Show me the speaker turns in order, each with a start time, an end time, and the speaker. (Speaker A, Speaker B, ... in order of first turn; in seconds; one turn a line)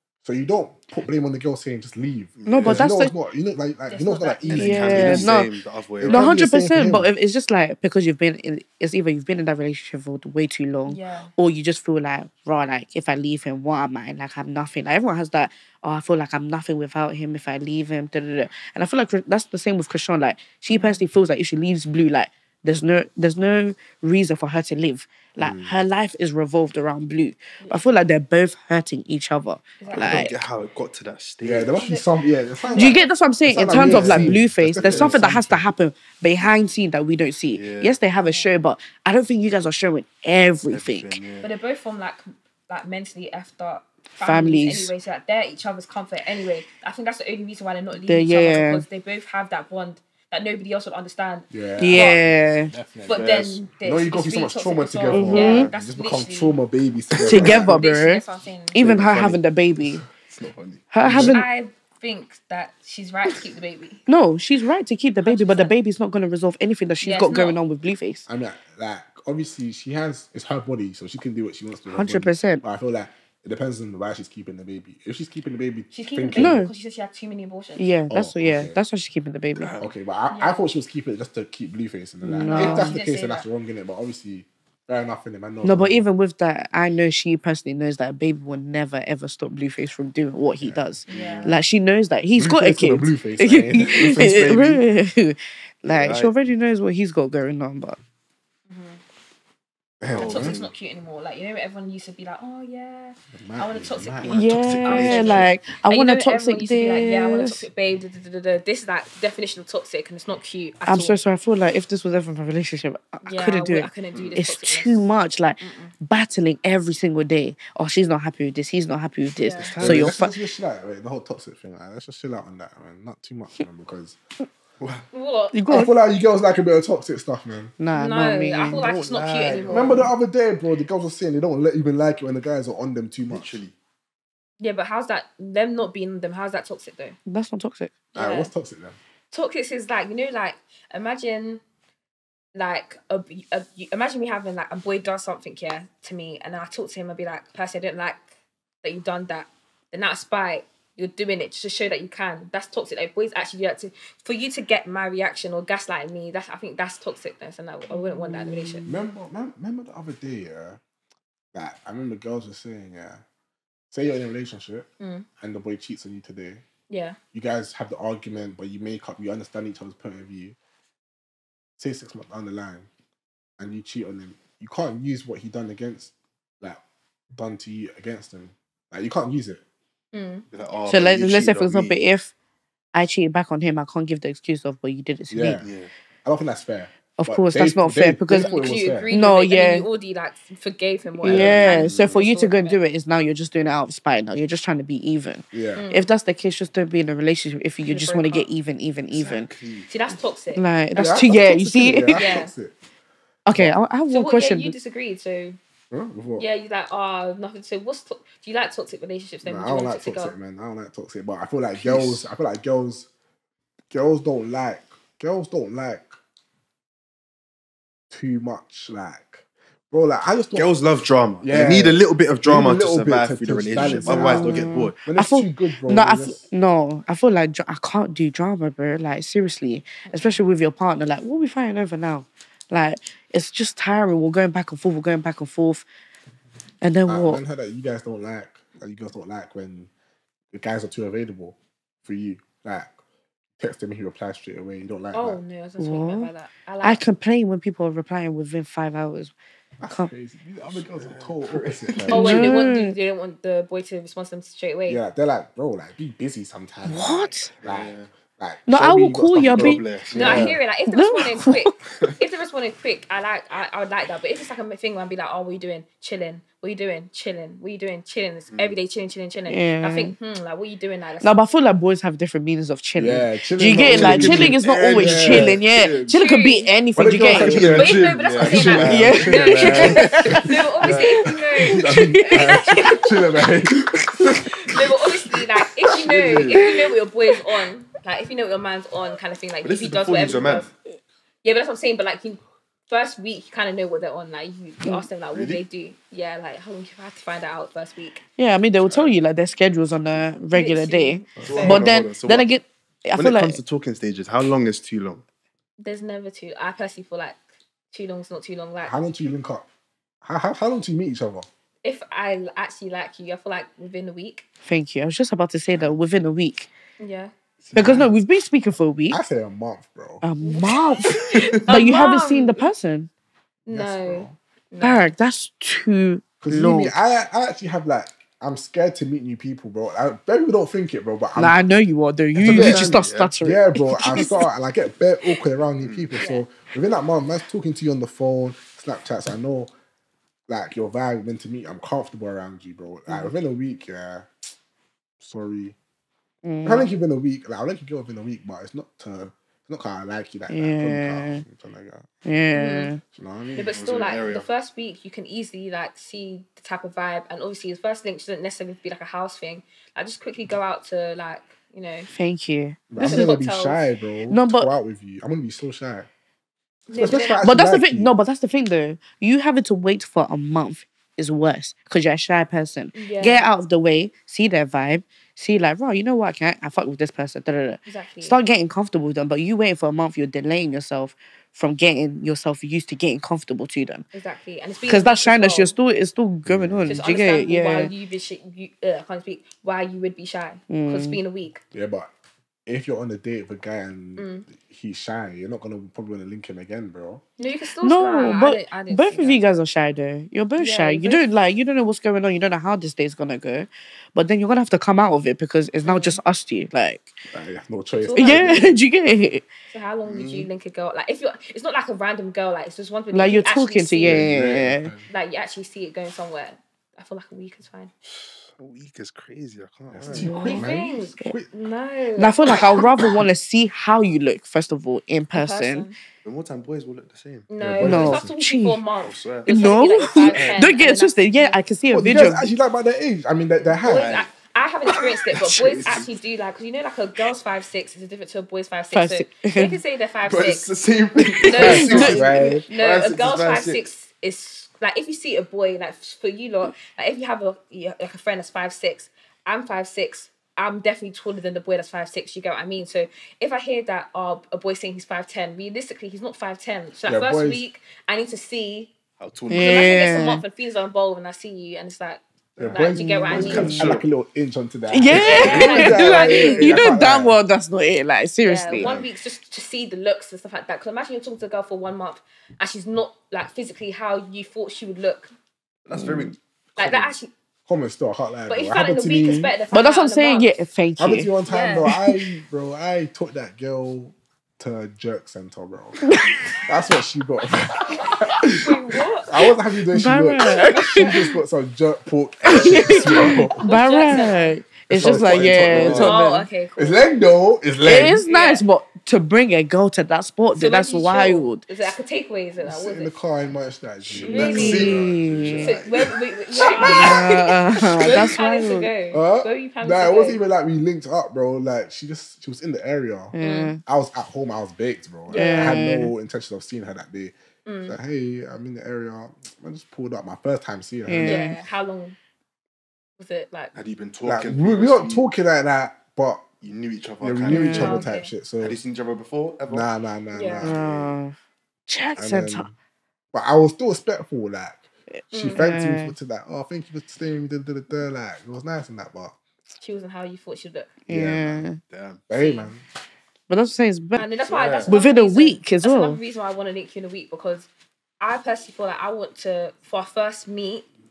Speaker A: 0.2-5.4
Speaker B: 2.4-2.9
Speaker C: 2.5-3.1
Speaker D: 3.9-5.1
Speaker B: 4.5-6.3
Speaker C: 4.6-5.5
Speaker A: 6.0-7.1
Speaker C: 6.1-30.3
Speaker D: 10.8-11.3
Speaker D: 20.7-21.0
Speaker B: 25.4-25.8
Speaker D: 29.8-30.3
Speaker B: 29.9-32.0
Speaker A: 31.4-35.7
Speaker D: 31.8-32.0
Speaker D: 32.6-33.1
Speaker C: 32.7-41.2
Speaker B: 33.7-35.2
Speaker B: 37.5-37.9
Speaker D: 38.2-38.5
Speaker B: 40.7-41.5
Speaker D: 41.4-52.2
Speaker C: 44.2-44.9
Speaker C: 47.9-48.8
Speaker A: 51.5-57.8
Speaker C: 51.8-52.7
Speaker B: 53.0-53.6
Speaker D: 53.1-56.6
Speaker C: 55.1-55.7
Speaker B: 55.3-55.6
Speaker B: 57.2-57.5
Speaker C: 57.2-58.2
Speaker D: 57.4-58.8
Speaker C: 58.7-60.0
Speaker A: 58.8-59.4
Speaker B: 60.2-60.9
Speaker C: 60.9-61.5
Speaker A: 61.0-61.4
Speaker D: 61.1-64.0
Speaker C: 64.1-68.2
Speaker D: 65.2-65.7
Speaker D: 67.0-67.6
Speaker A: 68.3-76.6
Speaker C: 71.9-72.6
Speaker D: 75.9-77.9
Speaker C: 76.3-76.7
Speaker C: 77.8-79.8
Speaker A: 78.1-78.8
Speaker B: 79.5-79.9
Speaker A: 79.8-86.0
Speaker D: 80.3-80.6
Speaker C: 82.2-83.0
Speaker D: 82.4-83.5
Speaker C: 85.6-98.0
Speaker B: 91.1-91.6
Speaker D: 91.1-91.5
Speaker A: 92.3-94.8
Speaker B: 93.8-94.8
Speaker B: 95.9-96.3
Speaker D: 98.7-99.0
Speaker A: 100.0-100.6
Speaker B: 100.1-100.7
Speaker D: 100.2-111.2
Speaker A: 103.3-104.3
Speaker C: 104.2-107.6
Speaker B: 104.2-105.5
Speaker C: 110.9-120.3
Speaker D: 113.2-115.1
Speaker D: 115.6-115.9
Speaker D: 119.4-119.7
Speaker B: 119.5-120.2
Speaker A: 119.8-124.2
Speaker B: 124.8-125.0
Speaker D: 125.1-125.6
Speaker C: 125.5-125.9
Speaker A: 125.7-127.7
Speaker C: 127.8-128.9
Speaker D: 127.9-130.1
Speaker B: 128.7-130.1
Speaker A: 129.7-133.6
Speaker B: 133.3-133.7
Speaker D: 134.6-137.2
Speaker C: 137.3-137.9
Speaker D: 138.1-138.5
Speaker A: 138.1-139.0
Speaker D: 139.3-141.6
Speaker D: 142.5-148.2
Speaker D: 148.8-158.8
Speaker C: 157.9-159.0
Speaker A: 158.8-160.8
Speaker A: 161.5-163.2
Speaker A: 163.9-164.9
Speaker D: 165.0-165.2
Speaker A: 165.4-166.6
Speaker D: 166.9-167.2
Speaker A: 167.3-170.6
Speaker A: 171.8-172.9
Speaker A: 173.6-176.8
Speaker A: 177.3-179.6
Speaker D: 180.1-180.4
Speaker B: 180.5-182.0
Speaker C: 180.9-182.3
Speaker C: 182.9-185.6
Speaker A: 185.3-185.7
Speaker B: 185.6-185.9
Speaker A: 186.2-189.1
Speaker C: 187.2-189.8
Speaker D: 188.3-192.8
Speaker C: 191.2-199.5
Speaker B: 191.2-192.2
Speaker A: 195.5-195.8
Speaker D: 195.8-196.1
Speaker D: 197.9-198.5
Speaker B: 199.1-199.9
Speaker D: 199.9-201.2
Speaker C: 200.5-202.3
Speaker A: 200.9-202.7
Speaker D: 202.1-202.5
Speaker C: 203.4-204.8
Speaker D: 204.1-205.6
Speaker A: 205.9-206.4
Speaker D: 206.4-210.3
Speaker A: 209.4-213.1
Speaker B: 211.8-212.3
Speaker A: 213.9-216.1
Speaker A: 218.1-220.7
Speaker B: 220.5-225.0
Speaker A: 221.4-226.4
Speaker C: 223.8-235.8
Speaker D: 230.1-230.4
Speaker C: 236.8-237.4
Speaker A: 237.1-239.9
Speaker A: 240.5-242.9
Speaker A: 243.6-245.4
Speaker D: 245.1-247.0
Speaker C: 245.8-246.3
Speaker C: 246.8-249.3
Speaker A: 249.8-252.5
Speaker C: 249.9-250.1
Speaker B: 250.7-252.4
Speaker C: 252.1-252.9
Speaker D: 252.1-255.0
Speaker A: 254.9-260.5
Speaker C: 256.9-257.5
Speaker B: 257.6-258.1
Speaker C: 258.7-261.7
Speaker B: 259.3-260.6
Speaker D: 260.1-271.4
Speaker B: 268.5-268.8
Speaker C: 269.5-270.1
Speaker C: 271.2-277.7
Speaker A: 272.9-275.6
Speaker B: 273.7-276.2
Speaker D: 276.1-283.1
Speaker A: 276.9-281.1
Speaker B: 277.3-281.3
Speaker C: 278.7-280.4
Speaker C: 281.6-283.0
Speaker A: 281.6-283.8
Speaker B: 283.7-284.8
Speaker D: 284.4-290.7
Speaker B: 285.9-286.7
Speaker C: 286.6-287.4
Speaker B: 289.6-290.7
Speaker D: 291.4-298.2
Speaker B: 295.3-295.6
Speaker C: 298.4-303.6
Speaker B: 298.8-299.1
Speaker D: 300.5-301.8
Speaker B: 301.4-302.5
Speaker B: 303.2-305.2
Speaker D: 305.8-307.4
Speaker D: 307.9-308.9
Speaker A: 308.8-309.6
Speaker A: 310.2-311.5
Speaker D: 311.8-314.4
Speaker C: 314.6-316.7
Speaker D: 317.0-317.3
Speaker B: 317.6-317.9
Speaker A: 317.7-318.1
Speaker C: 317.7-319.2
Speaker A: 319.1-320.2
Speaker C: 320.2-323.1
Speaker D: 320.4-322.6
Speaker B: 321.2-321.6
Speaker D: 323.6-325.1
Speaker A: 323.7-324.4
Speaker C: 324.8-326.9
Speaker A: 326.4-331.6
Speaker C: 331.4-334.5
Speaker B: 332.4-333.3
Speaker A: 332.4-339.7
Speaker B: 335.8-336.2
Speaker D: 336.2-336.4
Speaker A: 340.5-344.3
Speaker A: 345.2-345.8
Speaker C: 346.4-346.9
Speaker A: 346.6-352.1
Speaker C: 350.5-351.4
Speaker C: 352.2-353.0
Speaker D: 352.5-352.9
Speaker A: 353.1-354.1
Speaker B: 353.5-354.5
Speaker D: 353.6-362.1
Speaker C: 362.1-363.3
Speaker A: 362.9-366.1
Speaker D: 363.0-363.8
Speaker C: 364.3-364.7
Speaker D: 366.9-367.4
Speaker A: 366.9-368.1
Speaker C: 367.3-384.0
Speaker D: 372.9-373.5
Speaker D: 377.9-378.4
Speaker D: 384.1-385.7
Speaker C: 384.9-387.9
Speaker A: 386.4-386.9
Speaker D: 386.9-391.6
Speaker C: 390.7-391.2
Speaker A: 391.7-392.1
Speaker A: 392.6-397.2
Speaker D: 394.2-394.4
Speaker D: 397.4-399.4
Speaker C: 397.8-407.1
Speaker D: 400.6-401.2
Speaker D: 405.8-406.2
Speaker A: 407.3-408.7
Speaker D: 408.0-408.6
Speaker C: 408.2-409.4
Speaker D: 409.7-414.2
Speaker B: 410.1-410.5
Speaker C: 413.1-414.9
Speaker B: 414.1-414.7
Speaker A: 414.1-415.1
Speaker D: 415.1-417.9
Speaker B: 418.0-420.3
Speaker A: 419.9-421.5
Speaker C: 420.1-420.7
Speaker D: 420.2-422.7
Speaker C: 422.2-425.9
Speaker B: 422.5-423.1
Speaker D: 425.3-425.9
Speaker B: 426.2-427.5
Speaker D: 427.5-431.6
Speaker A: 427.6-428.3
Speaker C: 427.8-428.8
Speaker B: 429.0-430.7
Speaker C: 429.4-432.5
Speaker A: 431.9-434.2
Speaker B: 433.8-434.3
Speaker D: 433.8-440.7
Speaker B: 434.9-436.1
Speaker C: 438.9-439.8
Speaker B: 440.2-443.8
Speaker D: 441.3-458.9
Speaker A: 441.5-442.6
Speaker C: 441.7-442.2
Speaker A: 457.1-457.6
Speaker B: 459.2-459.9
Speaker C: 459.5-460.4
Speaker D: 459.5-463.9
Speaker B: 462.6-464.1
Speaker A: 462.6-467.4
Speaker C: 463.0-463.9
Speaker C: 464.9-468.9
Speaker B: 465.1-465.9
Speaker D: 465.1-466.9
Speaker D: 468.4-475.3
Speaker B: 468.8-469.1
Speaker B: 475.9-477.1
Speaker C: 475.9-476.3
Speaker D: 476.8-477.3
Speaker A: 477.7-479.5
Speaker D: 478.5-480.6
Speaker C: 479.7-482.3
Speaker A: 481.0-486.0
Speaker D: 481.5-481.9
Speaker C: 486.0-486.6
Speaker A: 486.7-488.7
Speaker D: 488.4-489.4
Speaker A: 489.3-493.7
Speaker C: 489.9-491.2
Speaker D: 490.7-491.2
Speaker C: 492.4-496.5
Speaker D: 492.9-494.6
Speaker A: 494.9-496.2
Speaker B: 494.9-496.2
Speaker D: 495.9-497.1
Speaker A: 496.8-498.2
Speaker C: 497.8-501.6
Speaker D: 498.2-498.6
Speaker D: 500.5-503.1
Speaker A: 502.6-505.6
Speaker D: 504.2-504.9
Speaker B: 504.2-507.0
Speaker C: 504.3-505.8
Speaker D: 505.6-510.4
Speaker A: 506.6-507.3
Speaker C: 506.8-508.9
Speaker A: 508.0-508.4
Speaker A: 509.1-513.3
Speaker C: 513.3-513.8
Speaker D: 513.4-513.8
Speaker A: 513.9-517.3
Speaker D: 515.3-515.8
Speaker C: 515.3-516.1
Speaker D: 517.6-518.0
Speaker A: 517.9-521.5
Speaker C: 521.0-521.6
Speaker D: 521.2-522.1
Speaker D: 523.2-523.7
Speaker B: 523.7-525.3
Speaker A: 524.2-526.5
Speaker B: 526.6-528.0
Speaker A: 527.2-528.8
Speaker C: 527.5-528.0
Speaker D: 527.7-528.3
Speaker B: 528.6-529.9
Speaker A: 529.7-531.1
Speaker D: 530.3-530.7
Speaker C: 530.6-531.3
Speaker C: 531.9-532.7
Speaker A: 532.1-532.7
Speaker A: 533.3-539.4
Speaker D: 535.3-535.7
Speaker C: 535.5-536.1
Speaker D: 539.8-540.9
Speaker C: 541.1-541.8
Speaker A: 541.1-541.7
Speaker B: 541.9-542.2
Speaker A: 542.3-542.8
Speaker D: 542.3-542.7
Speaker C: 543.5-544.2
Speaker D: 544.1-547.7
Speaker B: 544.5-544.9
Speaker C: 544.9-546.2
Speaker D: 548.2-550.9